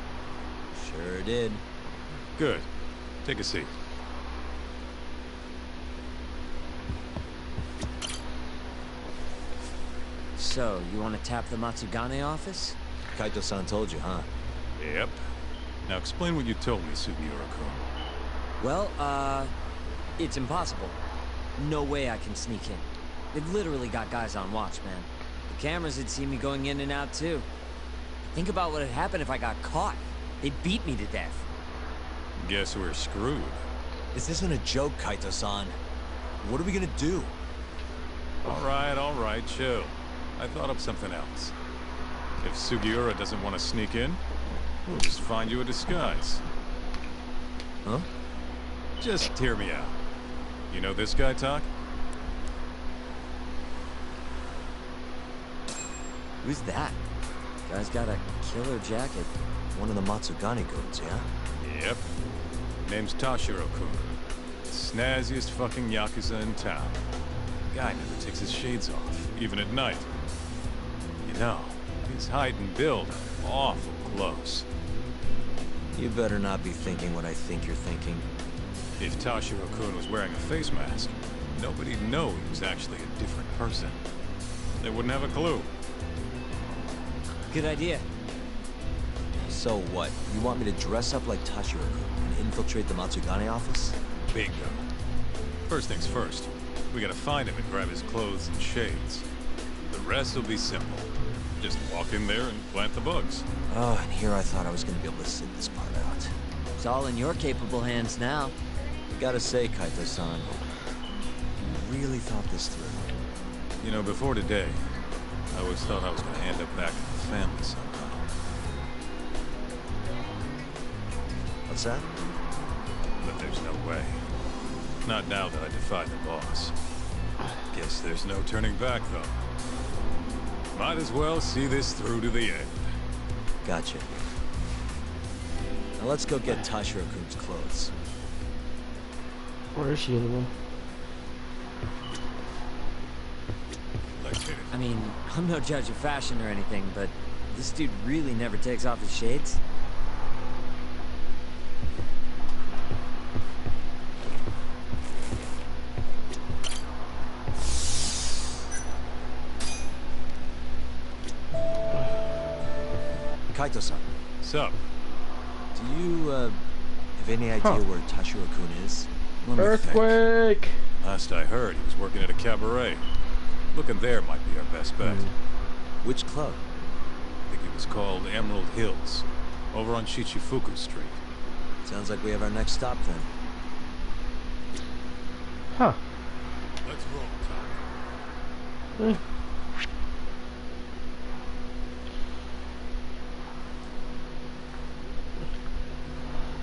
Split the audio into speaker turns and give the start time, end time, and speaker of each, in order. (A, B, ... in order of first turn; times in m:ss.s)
0:00.7-0:01.6 A
0:02.4-0:02.7 B
0:03.2-0:03.7 B
0:10.4-0:12.8 C
0:13.1-0:14.3 A
0:14.8-0:15.2 B
0:15.9-0:17.8 B
0:18.6-0:19.5 C
0:20.2-0:21.0 C
0:21.6-0:27.5 C
0:28.3-0:31.4 C
0:32.4-0:33.6 B
0:34.1-0:35.8 A
0:36.4-0:37.3 A
0:38.5-0:41.5 B
0:42.4-0:44.2 B
0:44.9-0:46.4 B
0:49.0-0:49.9 B
0:50.7-0:51.7 B
0:56.4-0:57.0 C
0:57.7-0:59.3 C
0:59.7-1:01.3 A
1:01.6-1:02.0 B
1:02.8-1:04.1 B
1:04.7-1:07.0 B
1:07.7-1:10.1 B
1:11.2-1:14.7 B
1:16.0-1:18.3 A
1:19.0-1:24.0 B
1:24.8-1:25.7 B
1:27.5-1:28.0 C
1:29.5-1:34.0 A
1:34.3-1:34.8 B
1:35.7-1:39.2 B
1:39.9-1:41.1 B
1:41.6-1:43.5 B
1:43.7-1:46.4 A
1:46.8-1:48.5 C
1:49.2-1:50.6 A
1:51.6-1:53.2 A
1:53.8-1:55.0 B
1:55.5-1:58.3 B
2:01.7-2:02.1 A
2:03.2-2:04.2 B
2:05.0-2:06.8 B
2:07.7-2:09.4 B
2:10.7-2:12.9 B
2:13.6-2:14.2 A
2:16.0-2:17.9 A
2:19.8-2:20.5 D
2:24.2-2:24.7 B
2:24.7-2:29.6 C
2:43.5-2:44.0 A
2:44.4-2:44.8 B
2:45.8-2:46.6 A
2:47.2-2:50.1 A
2:49.6-2:50.9 D
2:51.0-2:53.1 B
2:53.7-2:55.3 B
2:56.0-2:56.6 A
2:57.5-3:01.2 B
3:01.8-3:03.3 A
3:05.7-3:06.0 D
3:06.8-3:07.9 B